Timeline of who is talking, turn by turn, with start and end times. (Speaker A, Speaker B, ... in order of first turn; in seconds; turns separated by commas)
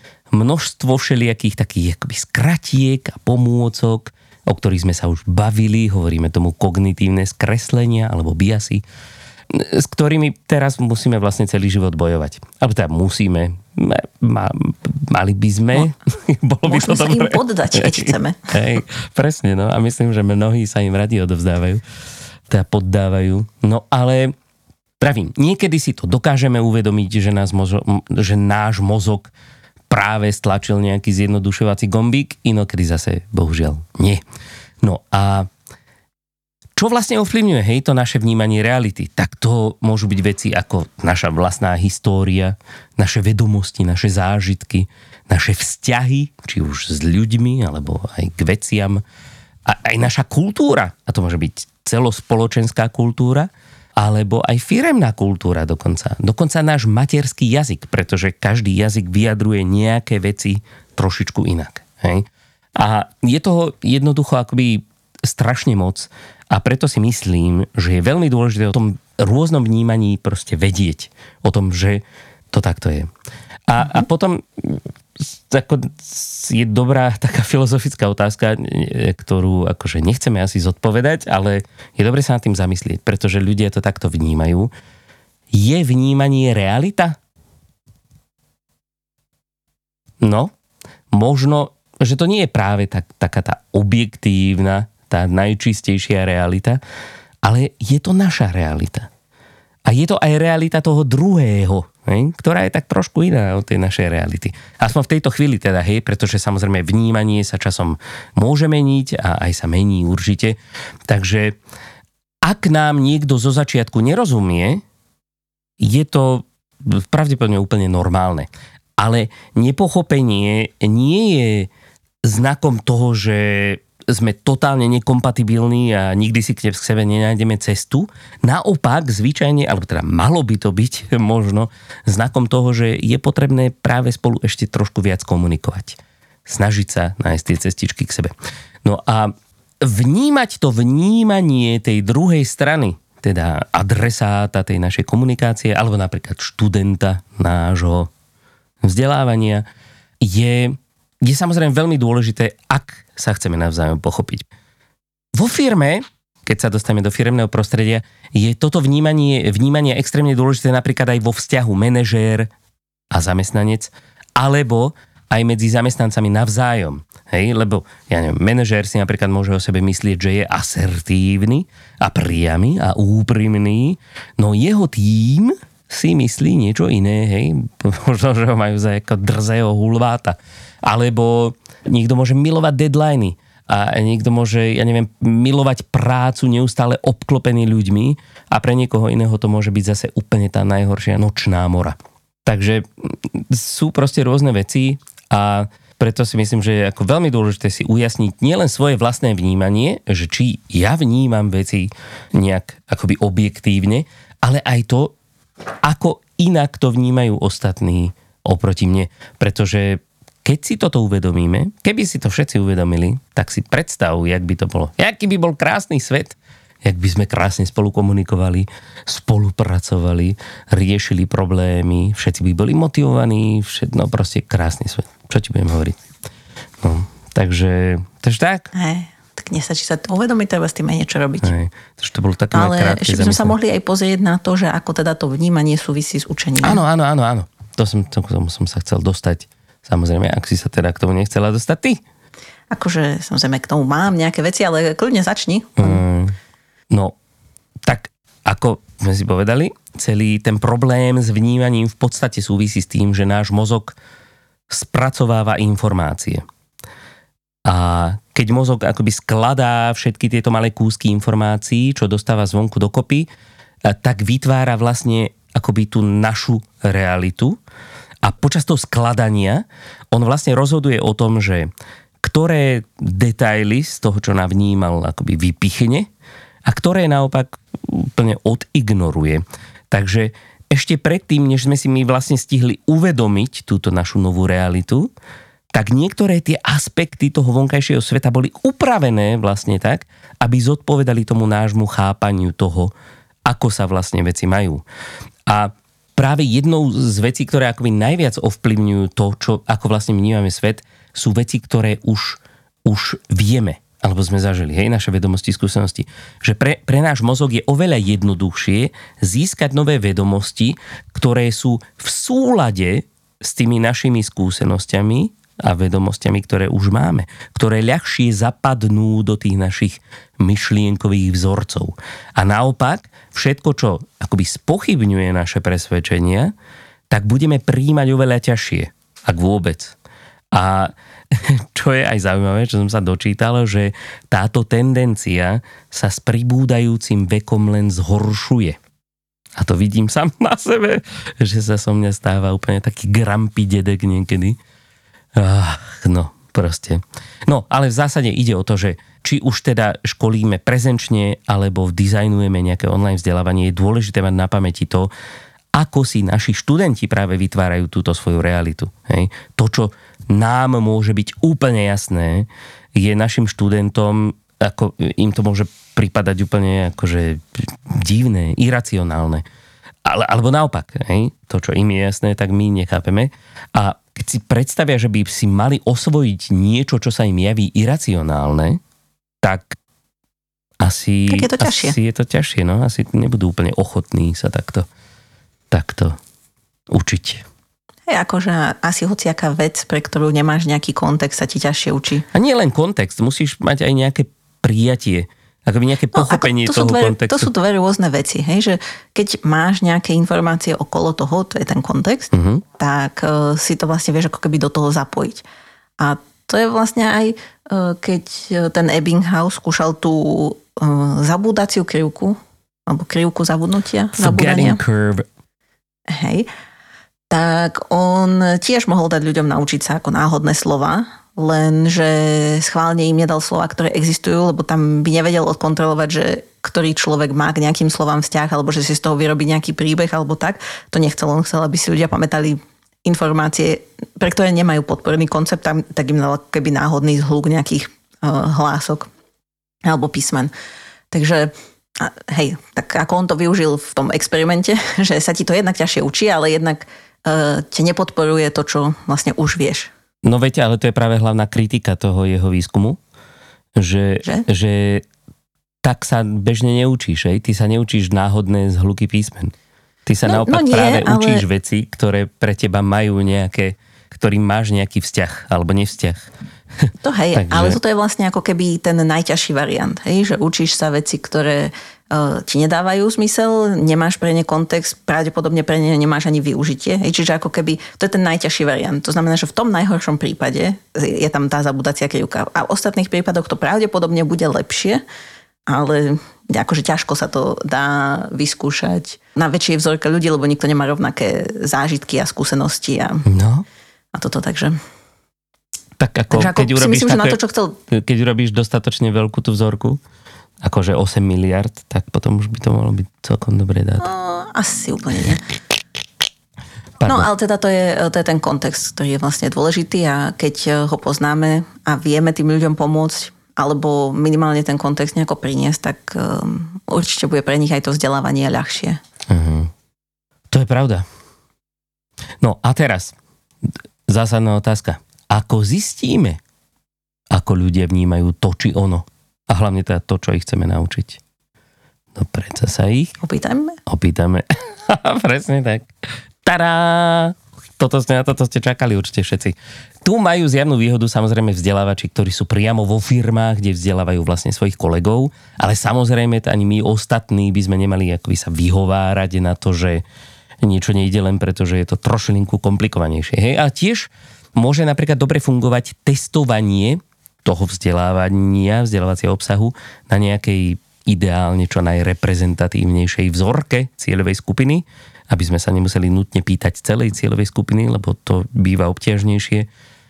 Speaker A: 0.3-8.8, Speaker A: 9.5-21.8, Speaker B: 16.7-18.5, Speaker A: 22.5-24.3, Speaker A: 25.0-29.3, Speaker A: 29.9-34.2, Speaker A: 34.8-35.5, Speaker A: 36.8-49.0, Speaker A: 49.7-73.1, Speaker A: 73.7-84.7, Speaker A: 85.5-87.2, Speaker A: 90.2-90.5, Speaker A: 91.1-96.8, Speaker A: 97.4-99.1, Speaker A: 99.9-110.6, Speaker A: 111.1-111.6, Speaker A: 112.4-114.8, Speaker A: 115.8-121.7, Speaker A: 122.2-138.3, Speaker A: 138.8-148.1, Speaker A: 148.8-149.7, Speaker A: 150.2-154.4, Speaker A: 155.3-162.5, Speaker A: 163.1-205.2, Speaker A: 205.8-226.0, Speaker A: 226.8-228.7, Speaker B: 228.7-231.5, Speaker A: 231.4-233.6, Speaker B: 232.5-236.8, Speaker A: 236.6-242.0, Speaker B: 242.7-246.0, Speaker A: 245.8-246.4, Speaker A: 246.9-247.2, Speaker A: 247.9-253.9, Speaker A: 254.7-256.4, Speaker A: 257.7-263.3, Speaker A: 263.9-267.6, Speaker A: 268.2-271.7, Speaker A: 272.2-276.1, Speaker A: 276.7-285.1, Speaker A: 285.7-292.9, Speaker A: 293.5-294.8, Speaker A: 295.5-326.5, Speaker A: 327.1-329.9, Speaker A: 330.5-338.8, Speaker A: 339.6-344.6, Speaker A: 345.4-355.1, Speaker A: 355.8-369.4, Speaker A: 370.1-378.8, Speaker A: 379.4-379.8, Speaker A: 380.8-384.9, Speaker B: 381.3-382.0, Speaker A: 385.7-386.2, Speaker A: 386.9-387.4, Speaker B: 388.1-392.3, Speaker A: 392.3-397.5, Speaker B: 396.1-405.4, Speaker A: 402.3-402.6, Speaker B: 406.0-414.8, Speaker A: 414.2-415.3, Speaker B: 416.1-416.5, Speaker B: 417.3-439.1, Speaker B: 439.9-440.5, Speaker B: 441.1-449.9, Speaker A: 450.2-453.0, Speaker A: 453.8-455.1, Speaker A: 455.8-459.5, Speaker A: 460.1-466.3, Speaker B: 460.2-461.4, Speaker A: 466.8-467.8, Speaker B: 467.0-485.0, Speaker B: 485.7-493.2, Speaker A: 493.3-493.7, Speaker B: 494.1-494.8, Speaker A: 496.0-500.0, Speaker B: 496.3-497.8, Speaker A: 500.6-504.1, Speaker B: 504.0-505.4, Speaker A: 507.0-507.3, Speaker B: 507.1-519.0, Speaker A: 519.3-519.7, Speaker A: 520.5-521.1, Speaker A: 522.4-523.1, Speaker A: 524.1-526.4, Speaker A: 527.3-531.2, Speaker A: 532.1-533.1, Speaker B: 533.2-533.8, Speaker A: 533.9-535.9, Speaker A: 536.4-550.0, Speaker A: 550.6-569.7